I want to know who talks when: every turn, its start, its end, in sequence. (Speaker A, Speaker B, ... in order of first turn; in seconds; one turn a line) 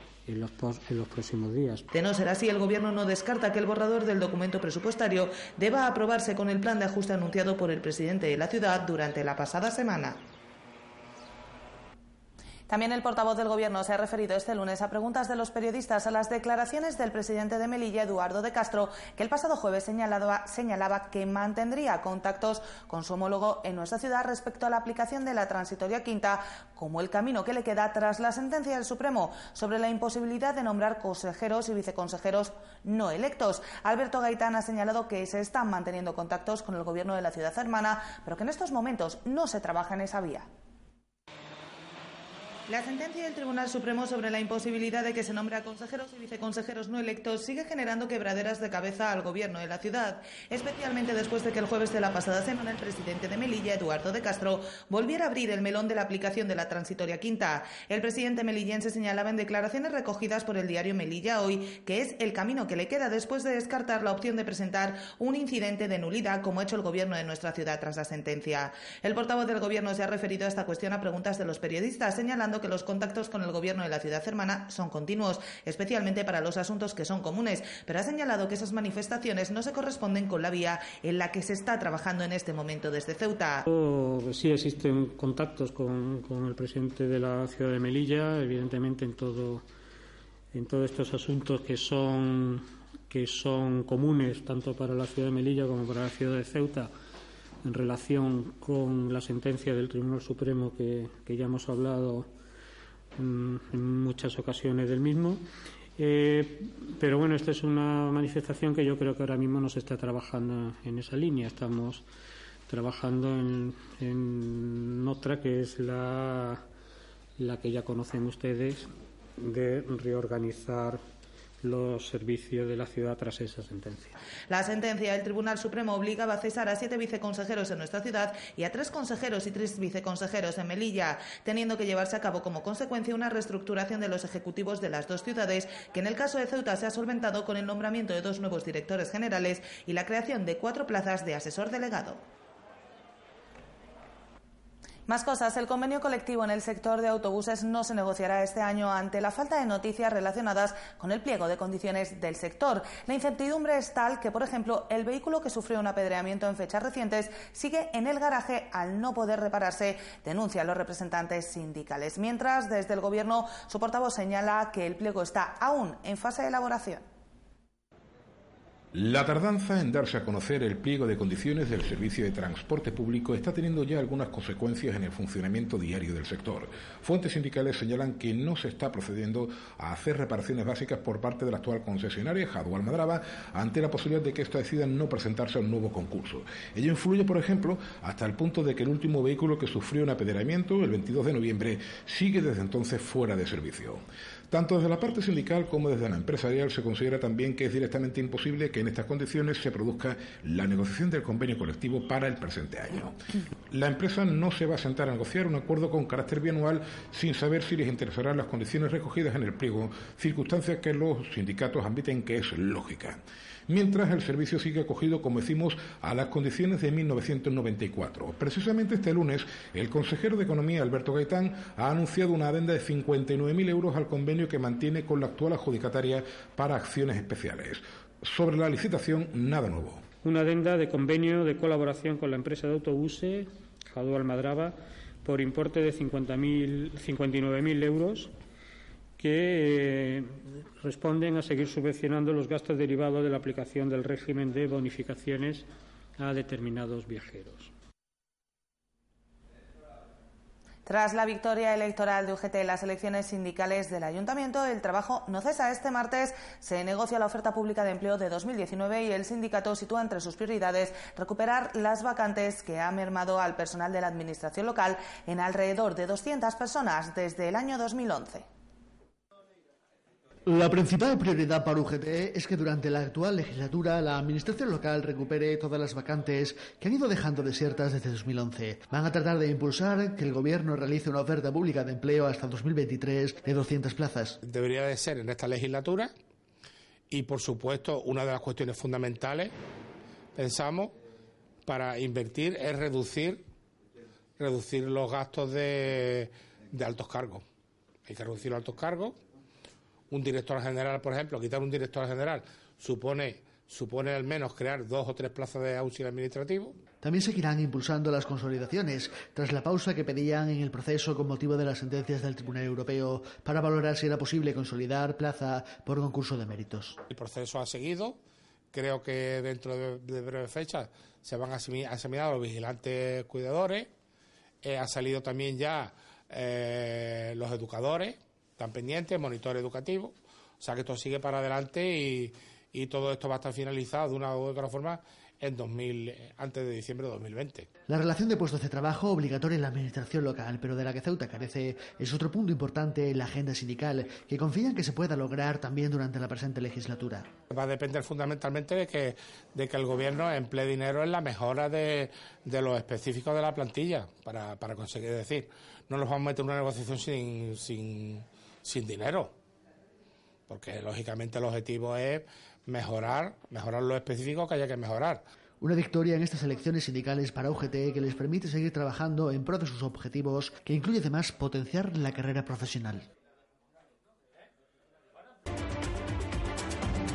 Speaker A: 0.3-1.9
Speaker B: 1.9-10.2
Speaker B: 12.7-40.5
Speaker B: 42.7-83.7
Speaker A: 83.7-89.6
Speaker A: 90.5-96.9
Speaker A: 97.6-102.3
Speaker A: 103.2-105.4
Speaker A: 106.0-112.0
Speaker A: 112.7-116.6
Speaker A: 117.4-121.0
Speaker A: 121.6-124.1
Speaker B: 124.5-142.2
Speaker B: 145.1-167.0
Speaker C: 168.9-203.2
Speaker C: 203.7-230.0
Speaker A: 230.2-238.3
Speaker A: 239.2-245.7
Speaker A: 246.2-247.7
Speaker B: 250.9-268.4
Speaker D: 270.5-284.4
Speaker E: 284.4-286.1
Speaker E: 287.1-289.5
Speaker E: 290.4-290.9
Speaker E: 291.6-293.4
Speaker E: 294.4-297.4
Speaker E: 298.1-299.2
Speaker E: 300.1-306.8
Speaker D: 307.0-317.0
Speaker E: 317.1-318.2
Speaker E: 318.7-323.9
Speaker E: 324.6-337.7
Speaker D: 337.9-347.3
Speaker E: 347.5-359.3
Speaker E: 360.5-365.2
Speaker D: 365.6-373.1